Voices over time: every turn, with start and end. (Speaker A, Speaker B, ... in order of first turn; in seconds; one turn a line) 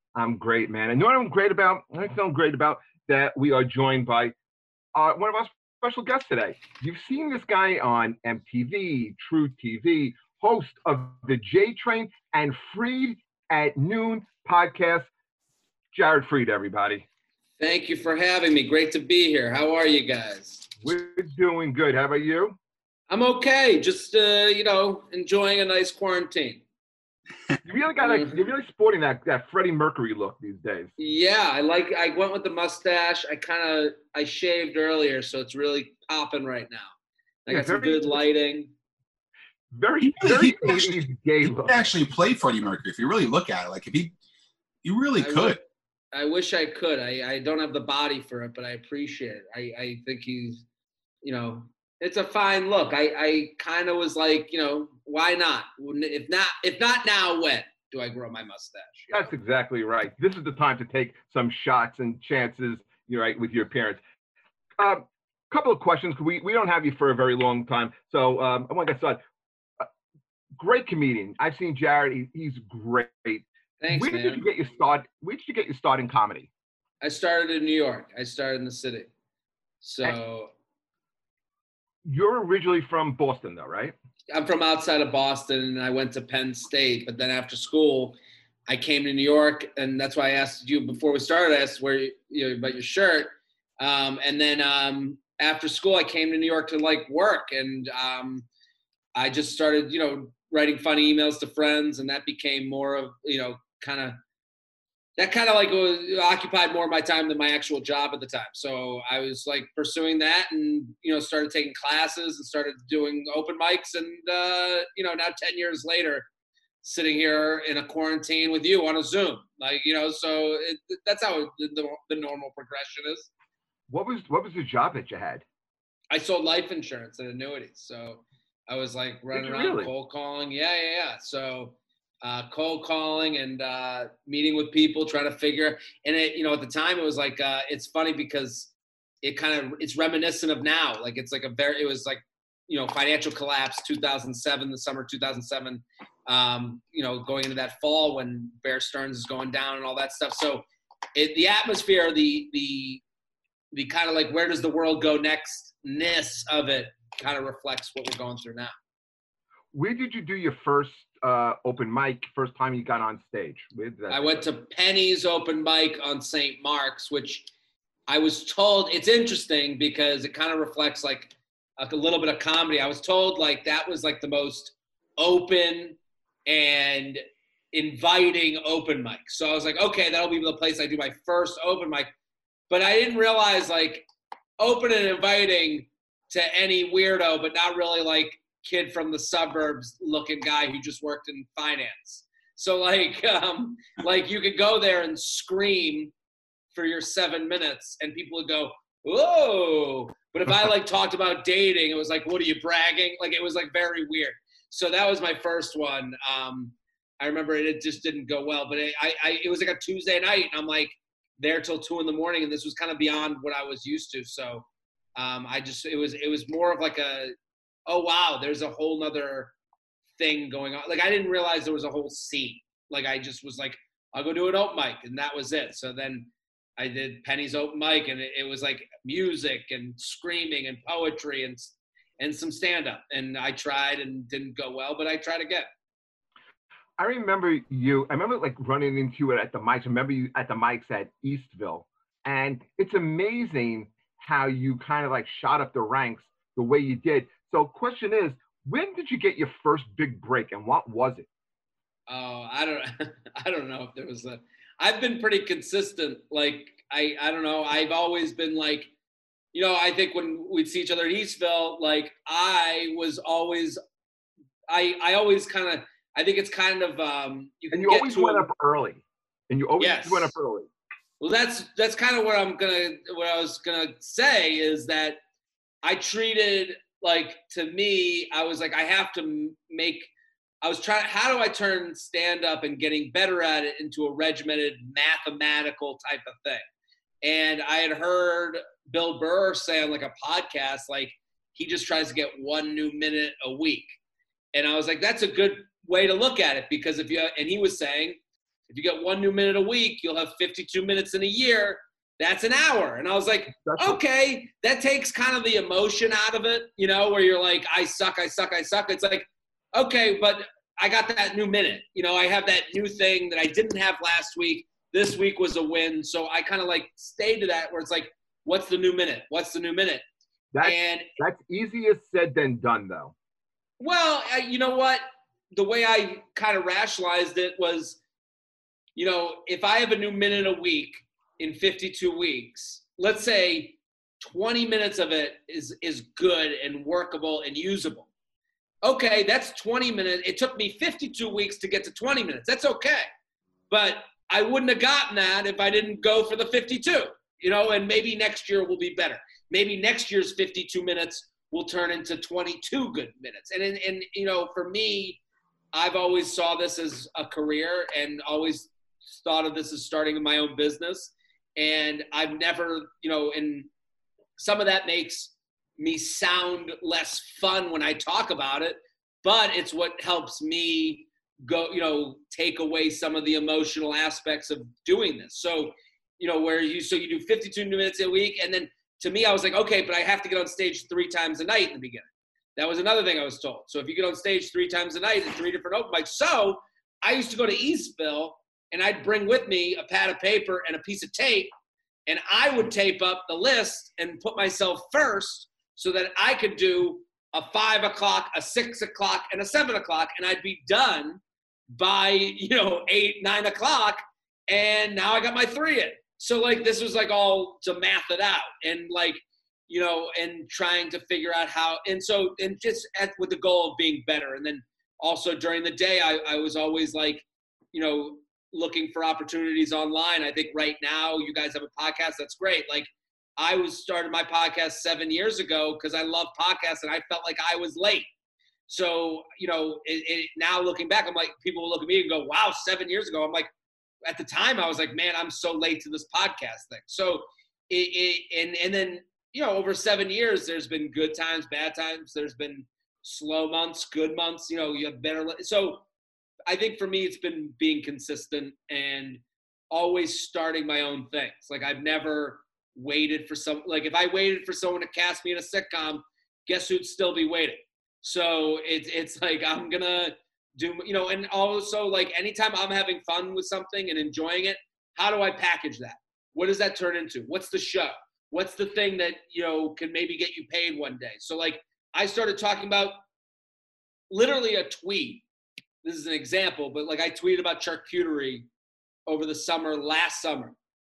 Speaker A: 0.1-4.3
Speaker A: 4.9-15.1
Speaker A: 15.9-17.0
Speaker B: 17.6-20.6
Speaker A: 20.8-22.6
Speaker B: 23.1-26.6
Speaker A: 27.6-30.9
Speaker B: 28.0-28.4
Speaker B: 31.0-36.9
Speaker B: 37.5-38.7
Speaker A: 37.5-38.2
Speaker A: 39.7-41.9
Speaker C: 40.0-44.1
Speaker C: 44.8-45.6
Speaker B: 45.2-45.6
Speaker B: 46.1-50.6
Speaker B: 51.2-59.1
Speaker A: 59.1-64.0
Speaker A: 64.8-69.2
Speaker A: 70.6-76.5
Speaker B: 73.8-74.4
Speaker B: 77.0-79.1
Speaker B: 79.8-80.5
Speaker A: 82.0-83.9
Speaker B: 84.3-98.5
Speaker B: 99.2-104.2
Speaker B: 105.2-116.3
Speaker B: 116.8-123.3
Speaker A: 123.9-125.4
Speaker B: 126.1-138.7
Speaker A: 129.3-129.9
Speaker B: 139.2-153.0
Speaker B: 153.7-158.7
Speaker A: 159.7-164.4
Speaker B: 164.1-167.5
Speaker B: 168.1-182.1
Speaker B: 182.7-184.1
Speaker B: 184.6-196.1
Speaker B: 196.7-217.3
Speaker B: 217.9-219.5
Speaker B: 220.2-235.7
Speaker A: 237.0-251.3
Speaker B: 252.1-258.9
Speaker B: 259.5-263.8
Speaker B: 264.7-268.5
Speaker A: 267.7-270.7
Speaker B: 269.8-270.3
Speaker B: 271.2-275.2
Speaker B: 275.8-280.1
Speaker B: 280.6-286.6
Speaker B: 287.2-293.9
Speaker B: 294.5-298.2
Speaker B: 298.7-320.0
Speaker A: 303.6-304.0
Speaker A: 320.5-323.1
Speaker B: 320.6-321.1
Speaker B: 323.8-328.0
Speaker B: 328.9-338.1
Speaker B: 338.8-343.1
Speaker B: 343.7-355.2
Speaker B: 355.7-363.7
Speaker B: 364.4-391.5
Speaker B: 392.1-428.1
Speaker B: 428.7-433.5
Speaker B: 434.0-445.8
Speaker B: 446.5-473.0
Speaker B: 474.1-475.2
Speaker B: 475.8-478.5
Speaker B: 479.1-480.6